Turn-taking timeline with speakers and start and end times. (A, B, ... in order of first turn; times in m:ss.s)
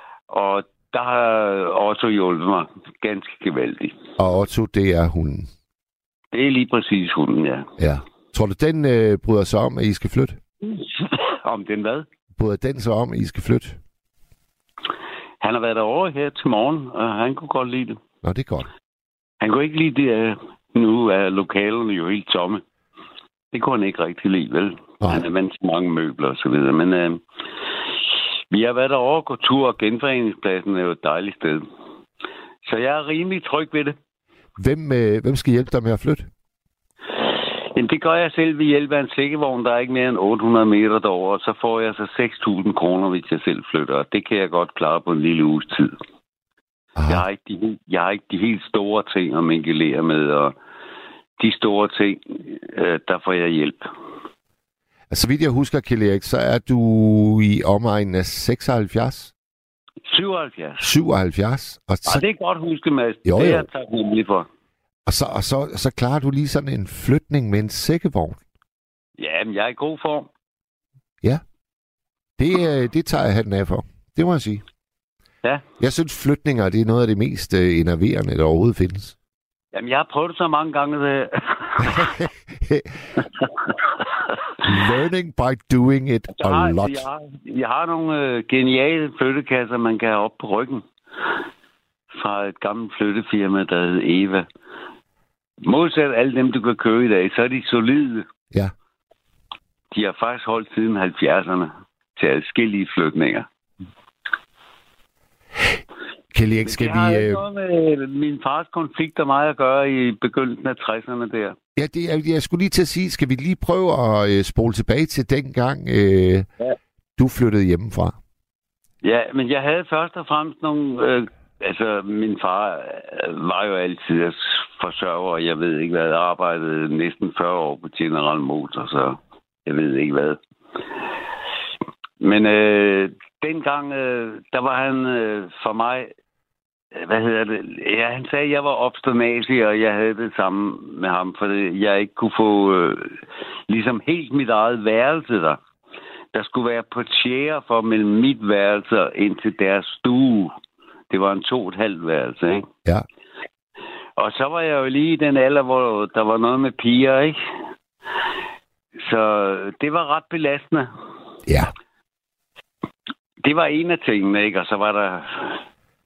0:00.3-0:04.0 A
0:04.2-0:05.5 B
0:06.3-0:07.7 A
0:07.8-0:10.4 B
0:10.6-0:12.0 A
0:12.4-0:13.8 B
0:15.4-0:18.0 A
0:18.2-0:18.7 B
0:19.4-0:22.6 A
0:23.5-0:27.2 A
0:28.5-0:31.6 A
0:32.6-0:34.0 A
0:34.6-0:36.3 B
0:37.2-0:46.0 A
0:47.0-0:47.2 B
0:47.1-0:50.5 A
0:51.4-0:53.8 A
0:55.1-0:59.3 B
1:00.1-1:00.9 A
1:00.8-1:02.2 B
1:02.1-1:04.5 A
1:03.2-1:03.6 B
1:05.0-1:08.4 B
1:09.2-1:10.3 A
1:12.4-1:14.6 B
1:15.8-1:19.1 B
1:19.7-1:22.1 A
1:21.8-1:22.9 B
1:24.0-1:24.5 A
1:24.6-1:27.0 B
1:26.3-1:30.8 A
1:32.1-1:34.4 A
1:35.6-1:38.3 A
1:39.9-1:43.5 A
1:46.3-1:47.4 B
1:46.6-1:51.6 A
1:51.8-1:56.5 B
1:57.2-1:58.2 B
1:59.0-2:10.4 A
2:12.2-2:16.1 A
2:16.9-2:25.6 A
2:26.3-2:30.5 A
2:31.1-2:32.7 A
2:34.2-2:37.4 A
2:39.0-2:40.9 A
2:41.5-2:41.7 B
2:43.4-2:45.6 A